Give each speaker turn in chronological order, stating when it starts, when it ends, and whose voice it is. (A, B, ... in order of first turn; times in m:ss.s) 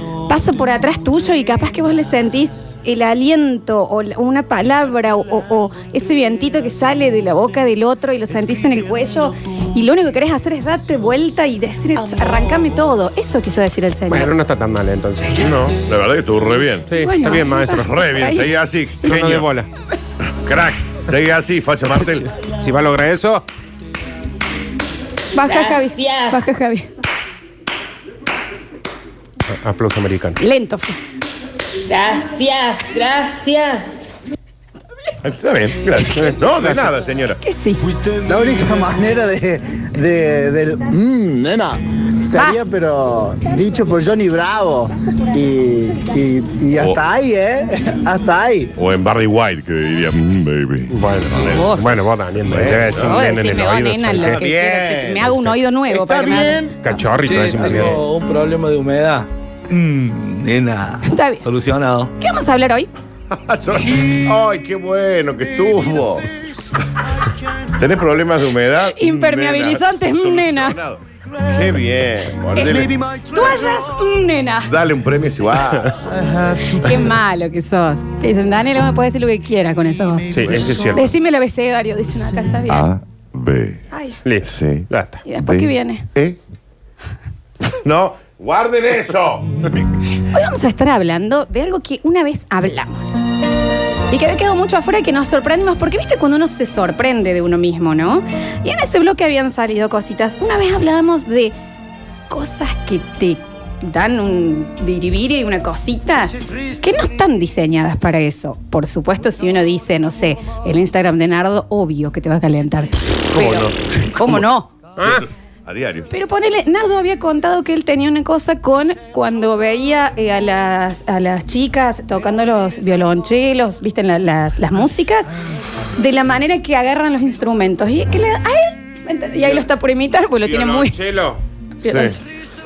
0:00.3-0:14.3 A
0:14.1-0:15.5 B
0:15.4-0:16.9 C
0:16.9-0:18.2 B
0:17.0-0:18.5 A
0:17.8-0:19.5 C
0:19.0-0:19.7 B
0:20.2-0:22.3 C
0:22.4-0:23.4 B
0:25.3-0:26.9 A
0:25.6-0:26.3 D
0:29.5-0:30.4 B
0:30.4-0:31.0 A
0:31.9-0:34.1 D
0:35.2-0:37.4 C
0:36.2-0:36.8 B
0:37.4-0:37.8 A
0:38.3-0:41.8 E
0:42.3-0:48.7 E
0:42.3-0:42.6 A
0:46.7-0:47.0 C
0:48.8-0:51.7 C
0:50.9-0:54.4 B
0:51.4-0:52.0 A
0:52.5-0:53.2 C
0:52.8-0:57.0 A
0:54.2-0:55.4 C
0:55.9-0:56.8 C
0:56.8-0:58.0 B
0:57.2-1:02.1 F
1:01.0-1:01.5 A
1:02.2-1:02.9 A
1:03.3-1:06.3 C
1:07.7-1:13.0 C
1:08.9-1:10.8 A
1:12.6-1:14.7 A
1:14.7-1:16.0 C
1:16.5-1:22.9 A
1:20.3-1:21.1 B
1:20.4-1:21.0 C
1:22.7-1:23.8 C
1:23.9-1:24.2 A
1:24.2-1:25.2 B
1:24.4-1:26.4 C
1:25.3-1:26.1 A
1:27.7-1:29.9 C
1:30.3-1:33.4 A
1:34.1-1:41.6 A
1:42.3-1:54.7 A
1:53.3-1:54.4 C
1:55.0-1:55.3 B
1:55.0-1:56.1 C
1:56.1-2:05.3 A
2:06.0-2:11.0 A
2:10.4-2:11.4 B
2:11.8-2:12.2 A
2:11.8-2:12.2 C